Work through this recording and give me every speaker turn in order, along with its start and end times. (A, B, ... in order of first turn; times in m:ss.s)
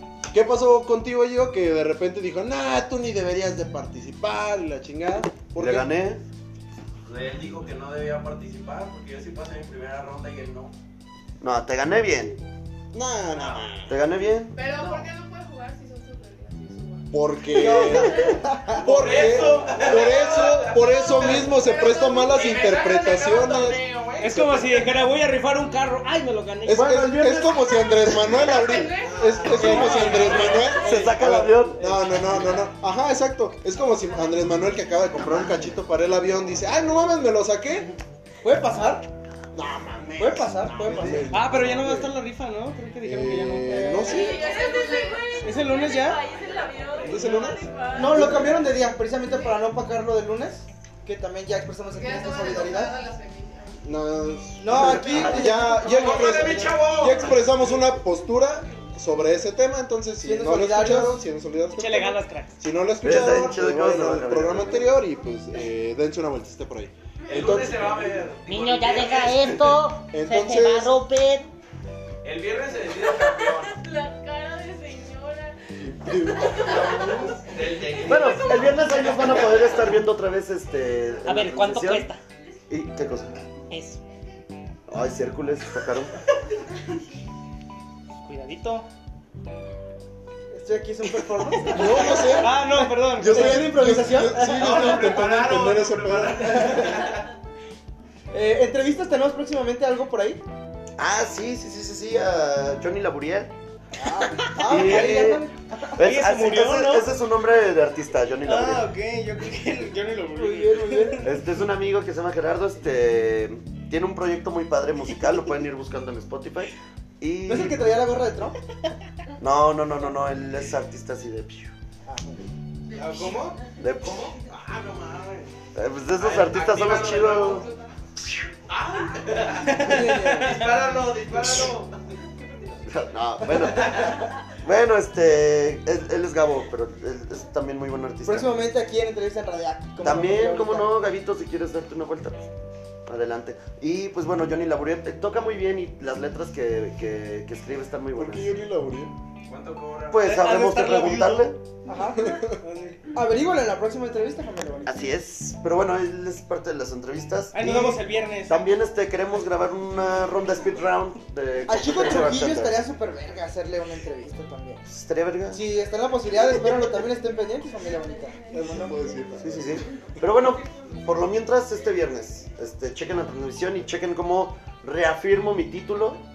0:00.3-0:05.9 A
0:05.6-0:06.2 B
0:07.0-0:10.7 C
0:11.4-0:12.4 B
0:12.9-0:14.0 A
0:13.9-0:14.8 B
0:14.5-0:17.1 D
0:17.1-0:23.9 A
0:17.5-0:19.1 E
0:17.9-0:18.3 D
0:18.8-0:25.0 C
0:20.3-0:22.5 D
0:24.2-0:27.5 F
0:26.6-0:37.9 A
0:26.8-0:27.6 B
0:28.4-0:30.7 D
0:28.8-0:30.8 C
0:29.5-0:31.1 F
0:30.7-0:31.9 B
0:31.9-0:32.6 F
0:38.4-0:39.1 E
0:39.5-0:42.2 A
0:40.2-0:41.3 E
0:41.3-0:44.2 F
0:43.0-0:44.6 A
0:43.9-0:48.7 D
0:45.4-0:46.3 F
0:46.7-0:47.3 C
0:47.0-0:48.8 A
0:47.9-0:53.0 E
0:49.2-0:49.6 D
0:52.0-0:53.8 D
0:53.8-1:08.2 A
0:54.6-0:56.9 E
0:54.7-0:55.6 B
0:55.9-0:57.4 C
1:00.2-1:01.2 E
1:01.7-1:02.6 F
1:03.0-1:04.9 B
1:07.3-1:09.8 C
1:08.4-1:11.5 G
1:10.1-1:11.0 A
1:12.2-1:13.8 C
1:13.1-1:17.4 D
1:15.8-1:17.4 A
1:17.4-1:19.3 C
1:17.9-1:19.2 D
1:18.0-1:22.1 B
1:21.2-1:22.2 G
1:22.7-1:23.4 B
1:23.7-1:24.0 G
1:24.9-1:26.2 B
1:28.2-1:28.9 F
1:30.5-1:34.8 E
1:31.5-1:33.9 F
1:31.7-1:36.8 A
1:34.4-1:37.3 C
1:36.6-1:36.9 E
1:38.3-1:40.4 E
1:41.0-1:43.5 B
1:44.0-1:46.0 E
1:44.4-1:45.4 B
1:44.7-1:45.1 F
1:46.0-1:48.9 B
1:46.0-1:47.1 F
1:48.4-1:51.3 F
1:50.4-1:51.3 E
1:51.2-1:58.1 B
1:57.5-1:58.6 E
1:59.4-2:01.7 B
2:02.1-2:02.5 E
2:02.9-2:03.6 D
2:02.9-2:05.5 C
2:03.8-2:04.3 B
2:05.8-2:07.7 B
2:06.1-2:07.7 C
2:07.5-2:07.9 D
2:08.7-2:12.0 C
2:09.5-2:10.8 F
2:09.8-2:10.6 E
2:12.9-2:18.5 B
2:13.6-2:14.2 C
2:18.2-2:21.0 E
2:20.0-2:22.5 B
2:23.1-2:28.5 B
2:28.1-2:29.2 A
2:29.5-2:30.6 C
2:30.1-2:31.6 B
2:30.2-2:31.5 F
2:31.9-2:32.4 E
2:32.2-2:32.5 A
2:32.4-2:33.0 F
2:33.1-2:35.0 E
2:34.8-2:42.9 B
2:37.5-2:38.7 F
2:41.7-2:44.8 E
2:44.9-2:45.6 B
2:45.5-2:49.0 E
2:48.5-2:49.9 A
2:49.4-2:56.2 B